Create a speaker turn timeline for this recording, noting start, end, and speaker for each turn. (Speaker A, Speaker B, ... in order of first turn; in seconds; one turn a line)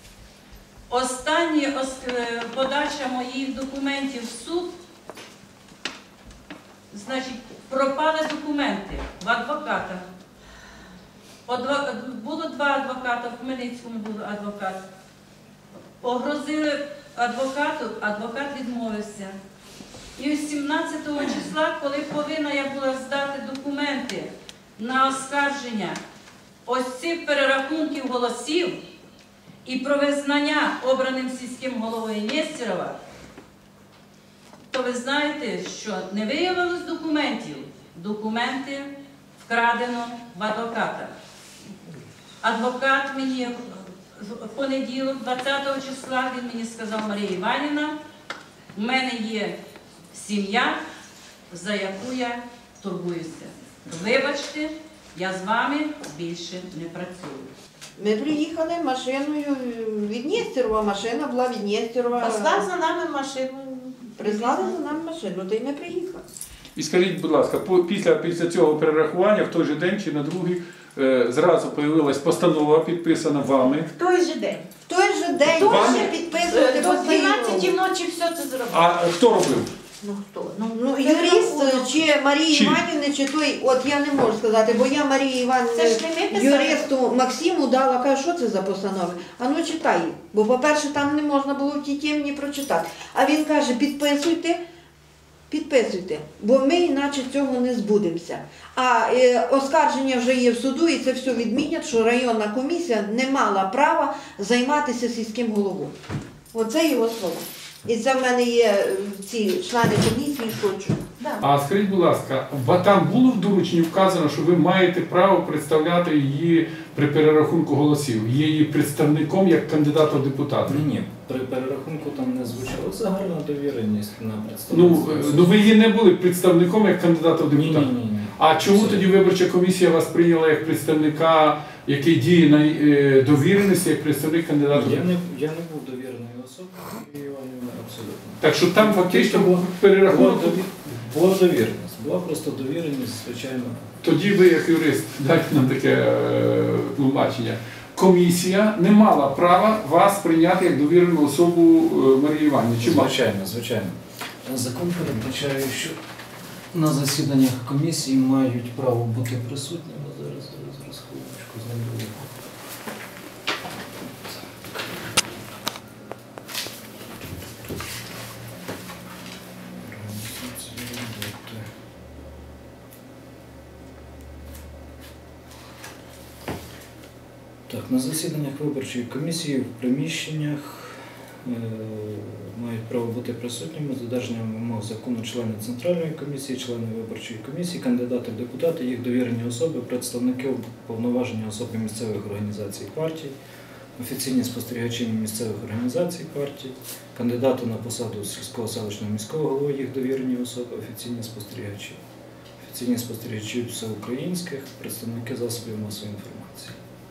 Speaker A: 0.9-4.8
Speaker A: 6.9-10.0
Speaker A: 11.5-14.8
Speaker A: 16.0-19.4
Speaker A: 20.2-26.0
Speaker A: 26.7-28.8
Speaker A: 29.6-33.0
Speaker A: 34.7-41.1
Speaker A: 42.4-48.0
Speaker A: 48.7-49.6
Speaker A: 50.1-50.8
Speaker A: 51.5-57.5
Speaker B: 58.0-62.7
Speaker C: 62.1-64.8
Speaker B: 64.2-66.2
Speaker D: 66.8-73.9
Speaker C: 73.7-74.7
Speaker B: 74.9-77.8
Speaker C: 75.5-79.0
Speaker D: 75.7-76.1
Speaker D: 78.7-79.7
Speaker C: 80.0-82.0
Speaker B: 80.7-94.6
Speaker D: 82.5-82.8
Speaker C: 85.7-86.9
Speaker B: 95.5-106.0
Speaker B: 106.5-111.0
Speaker D: 111.4-120.8
Speaker E: 120.7-125.5
Speaker D: 124.7-135.1
Speaker E: 127.5-129.1
Speaker E: 134.7-143.9
Speaker D: 138.4-140.6
Speaker D: 144.0-153.1
Speaker E: 152.8-155.9
Speaker E: 156.7-162.3
Speaker E: 164.1-165.0
Speaker E: 169.8-171.7
Speaker E: 177.7-193.4
Speaker E: 194.0-202.0
Speaker E: 202.6-206.8